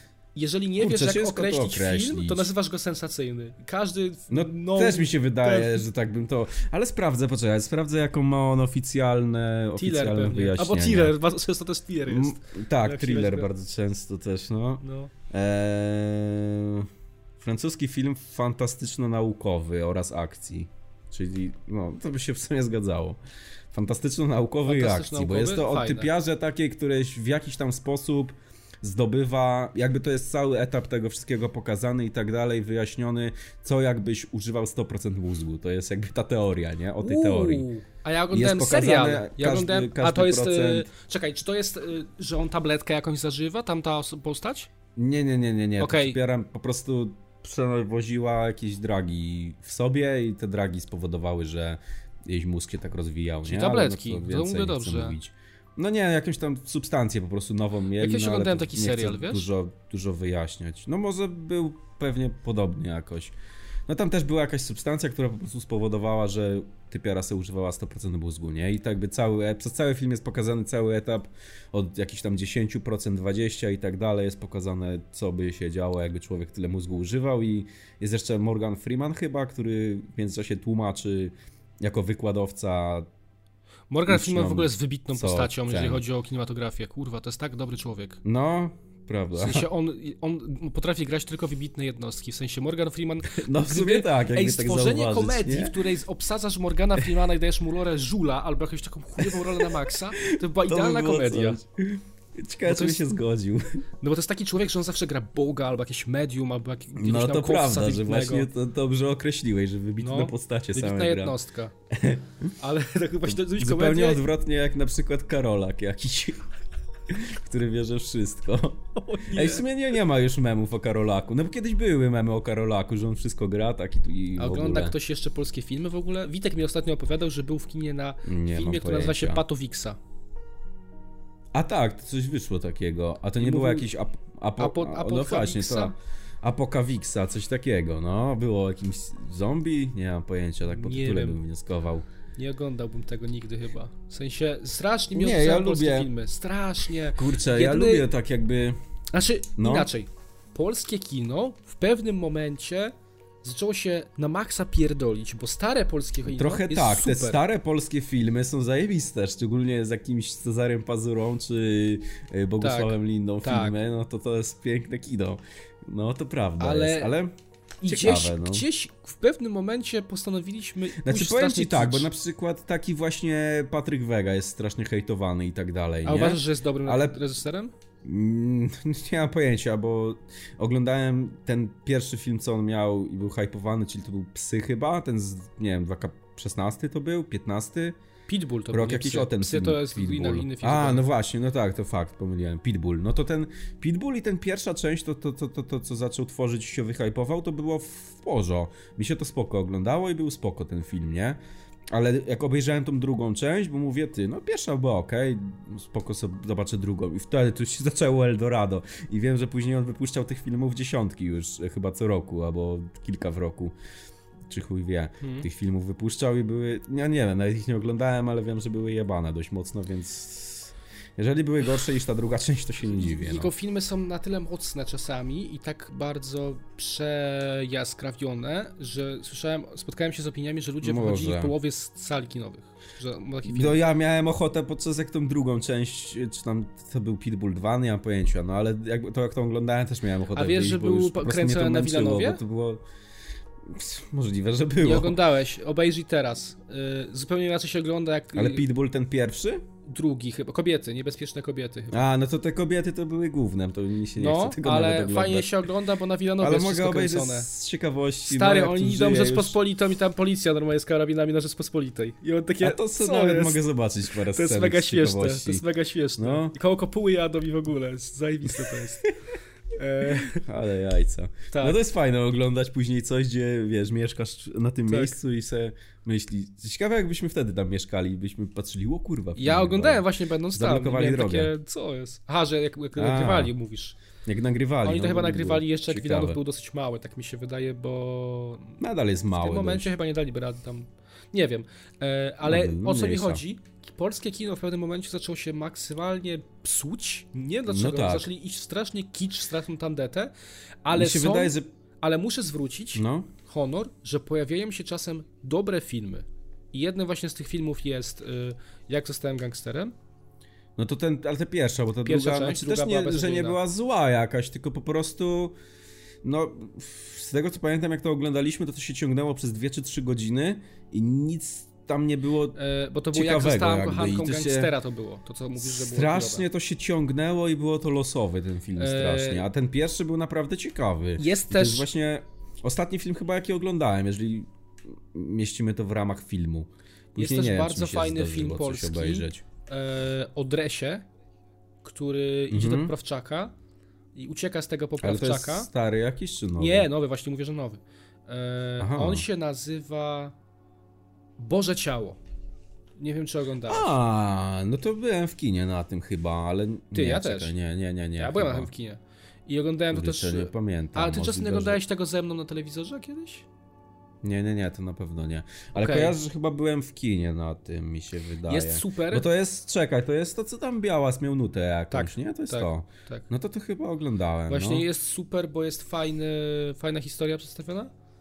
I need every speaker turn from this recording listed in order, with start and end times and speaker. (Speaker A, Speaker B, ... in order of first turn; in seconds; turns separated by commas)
Speaker A: 0.3-5.9, Speaker B: 0.8-2.5, Speaker B: 4.3-11.1, Speaker A: 9.8-13.5, Speaker B: 12.1-16.9, Speaker A: 14.8-15.1, Speaker B: 17.4-23.2, Speaker B: 23.7-37.7, Speaker A: 24.7-26.1, Speaker A: 37.0-44.7, Speaker B: 38.3-40.9, Speaker B: 45.0-63.3, Speaker A: 45.8-46.2, Speaker A: 53.4-55.2, Speaker A: 58.0-59.5, Speaker B: 63.9-83.1, Speaker A: 83.9-88.2, Speaker B: 84.1-86.0, Speaker B: 88.2-89.7, Speaker A: 89.4-101.6, Speaker B: 93.3-95.8, Speaker B: 99.2-103.8, Speaker A: 102.7-103.1, Speaker A: 104.0-108.5, Speaker B: 107.0-111.4, Speaker A: 110.0-111.7, Speaker B: 111.9-112.5, Speaker A: 112.6-114.2, Speaker B: 113.5-116.5, Speaker B: 117.1-125.0, Speaker A: 119.0-119.7, Speaker A: 124.4-130.0, Speaker B: 128.2-129.4, Speaker B: 131.5-142.1, Speaker A: 133.4-133.9, Speaker A: 134.6-135.9, Speaker A: 140.7-141.4, Speaker A: 142.4-148.1, Speaker B: 145.1-146.1, Speaker B: 147.2-148.8, Speaker A: 149.1-157.4, Speaker B: 149.6-149.9, Speaker B: 156.3-167.3, Speaker A: 162.6-163.8, Speaker A: 166.6-167.1, Speaker A: 167.8-172.1, Speaker B: 167.9-168.7, Speaker B: 171.0-177.2, Speaker A: 176.1-177.7, Speaker B: 178.0-188.0, Speaker A: 188.3-191.1, Speaker B: 188.7-213.8, Speaker B: 214.5-223.5, Speaker A: 215.2-215.5, Speaker A: 222.8-233.8, Speaker B: 230.8-231.5, Speaker B: 233.4-242.8, Speaker A: 240.3-242.4, Speaker B: 243.7-245.2, Speaker A: 244.8-248.6, Speaker B: 248.3-249.6, Speaker A: 249.9-252.1, Speaker B: 251.9-255.6, Speaker A: 254.2-257.5, Speaker B: 256.4-259.6, Speaker A: 258.3-269.1, Speaker B: 262.6-265.6, Speaker B: 266.2-266.5, Speaker A: 269.7-270.4, Speaker B: 270.1-281.5, Speaker A: 271.5-271.8, Speaker A: 274.9-275.2, Speaker A: 279.4-284.0, Speaker B: 283.0-283.5, Speaker B: 284.2-286.4, Speaker A: 284.8-288.8, Speaker B: 288.8-289.9, Speaker A: 289.3-309.9, Speaker B: 292.4-293.4, Speaker B: 297.7-298.3, Speaker B: 300.9-301.7, Speaker B: 302.9-303.3, Speaker B: 310.8-315.6, Speaker A: 312.1-313.6, Speaker B: 316.2-322.6, Speaker A: 322.6-326.4, Speaker B: 323.1-324.7, Speaker B: 325.6-339.4, Speaker A: 328.8-329.5, Speaker A: 331.2-331.9, Speaker A: 337.2-341.1, Speaker A: 341.8-343.5, Speaker B: 342.5-342.9, Speaker A: 344.1-345.7, Speaker B: 345.0-346.9, Speaker A: 346.6-350.4, Speaker B: 348.8-349.3, Speaker A: 351.4-352.2, Speaker A: 353.0-353.9, Speaker B: 353.7-358.7, Speaker A: 356.9-357.6, Speaker A: 358.2-363.5, Speaker B: 359.9-361.8, Speaker B: 364.2-374.9, Speaker A: 365.8-366.2, Speaker A: 368.5-369.3, Speaker A: 371.9-373.3, Speaker A: 374.5-377.9